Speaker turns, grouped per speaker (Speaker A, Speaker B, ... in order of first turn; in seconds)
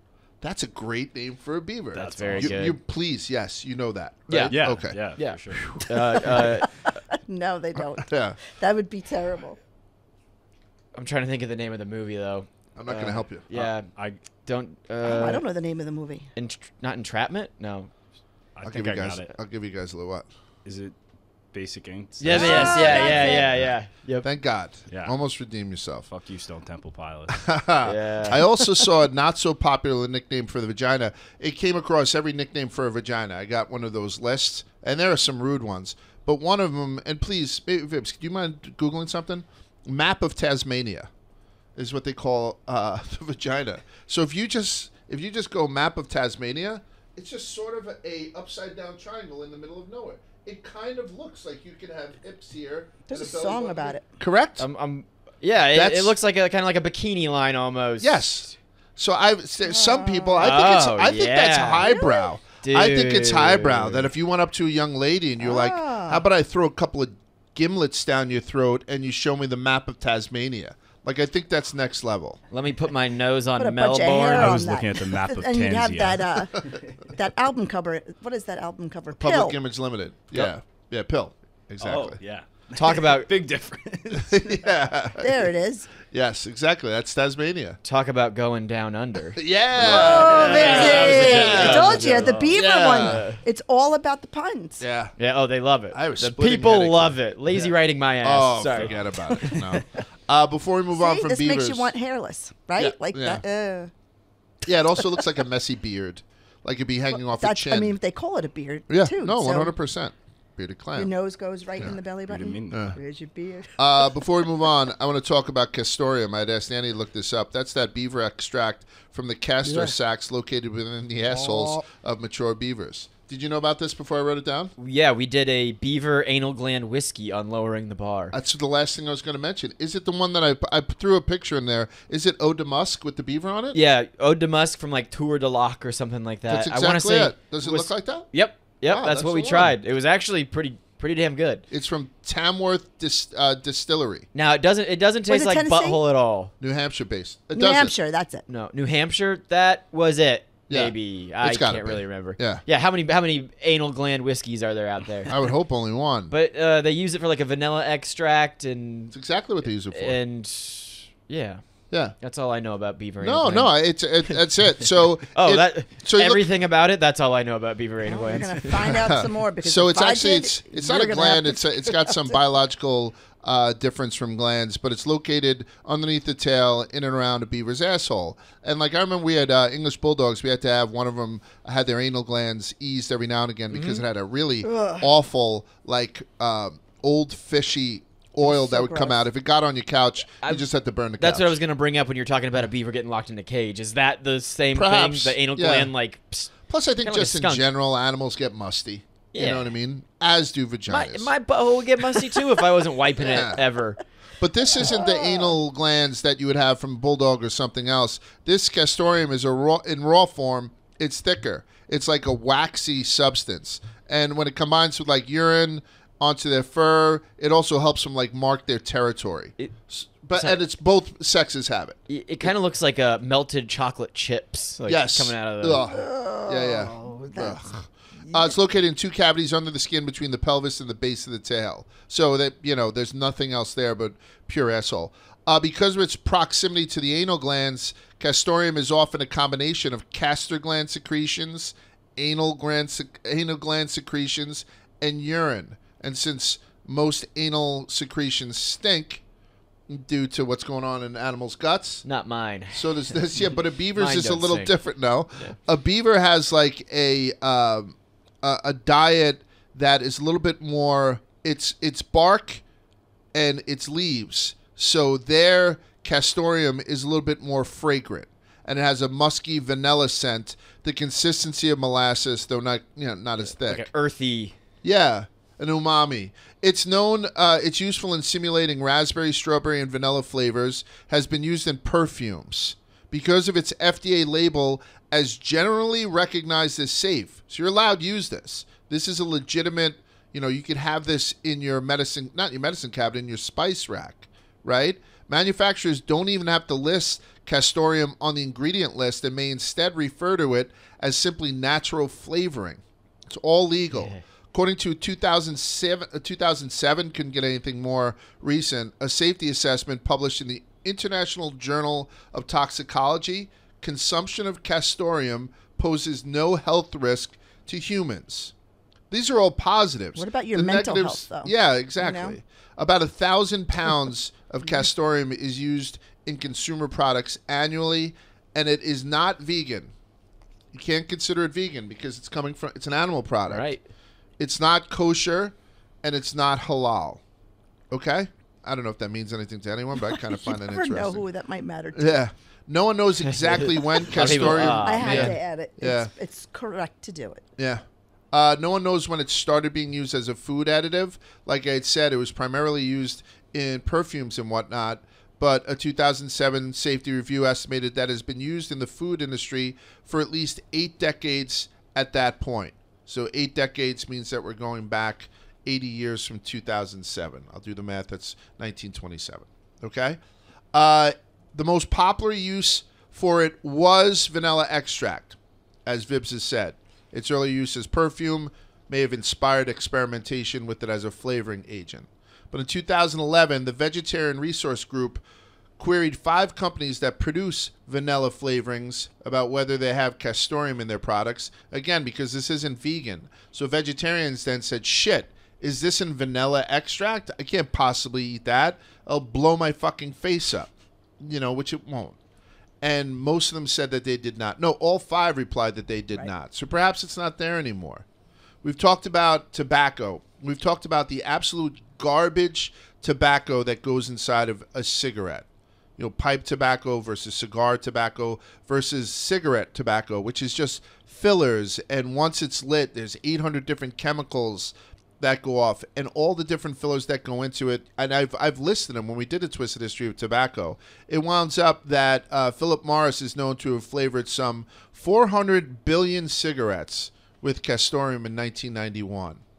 Speaker A: 0.4-5.0, 5.5-6.5, 7.9-8.4, 12.8-13.4, 18.6-20.3, 22.4-23.1, 24.2-26.1, 27.3-41.1, 41.8-54.6, 55.7-56.1, 58.0-72.4, 79.1-82.2, 84.1-85.4, 86.1-87.8, 89.3-93.3, 94.8-95.1, 95.9-97.2, 98.2-101.9, 102.8-103.4, 104.6-108.0, 108.9-111.1, 112.7-113.0, 113.8-124.7, 128.3-133.8, 136.5-138.3, 138.9-139.7, 141.7-144.3, 146.6-147.9, 150.7-152.6, 155.2-156.3, 159.1-160.2, 163.2-166.4, 168.8-191.6, 194.7-195.9, 196.7-201.3, 203.3-203.6, 204.4-222.5, 224.9-249.2, 249.9-252.0, 252.7-262.6, 263.3-273.9, 274.8-318.5, 319.1-329.9, 330.7-333.7, 334.4-337.2, 337.9-341.2, 341.9-346.1, 347.6-370.2, 370.7-385.2, 385.8-402.2, 402.8-408.0, 408.6-415.4, 416.0-439.4
Speaker B: 1.9-2.6, 4.5-5.8, 13.5-14.2, 18.6-19.2, 20.6-21.0, 21.5-23.7, 24.9-25.1, 26.1-27.5, 74.3-76.8, 81.8-84.6, 89.8-92.6, 112.3-112.9
Speaker C: 1.9-2.8, 4.3-4.5, 5.1-6.8, 10.9-13.9, 14.4-15.4, 16.4-17.9, 22.2-24.2, 27.8-28.4, 54.6-58.5, 60.4-61.9, 62.6-64.1, 72.5-74.7, 82.7-83.3, 87.8-93.4, 95.2-99.8, 124.8-128.3, 133.7-141.6, 144.3-146.5, 148.5-155.4, 156.3-168.9, 183.7-184.0, 190.4-196.5, 197.0-197.7, 199.3-199.7, 200.9-204.0, 222.1-225.8, 252.0-254.7, 273.5-274.5, 303.9-304.2, 333.5-333.8, 343.3-345.3
Speaker D: 7.1-9.6, 15.0-16.3, 22.3-23.5, 53.1-54.0, 59.6-60.5, 61.8-62.3, 65.4-66.2, 73.6-79.5, 85.2-85.9, 89.8-94.8, 100.9-103.9, 107.3-109.7, 111.0-114.1, 119.6-119.9, 121.3-121.7, 145.3-146.0, 147.5-148.4, 168.0-172.4, 184.6-185.1, 188.4-189.2, 204.8-205.6, 225.8-227.7, 320.1-322.4, 340.3-342.2, 344.2-347.4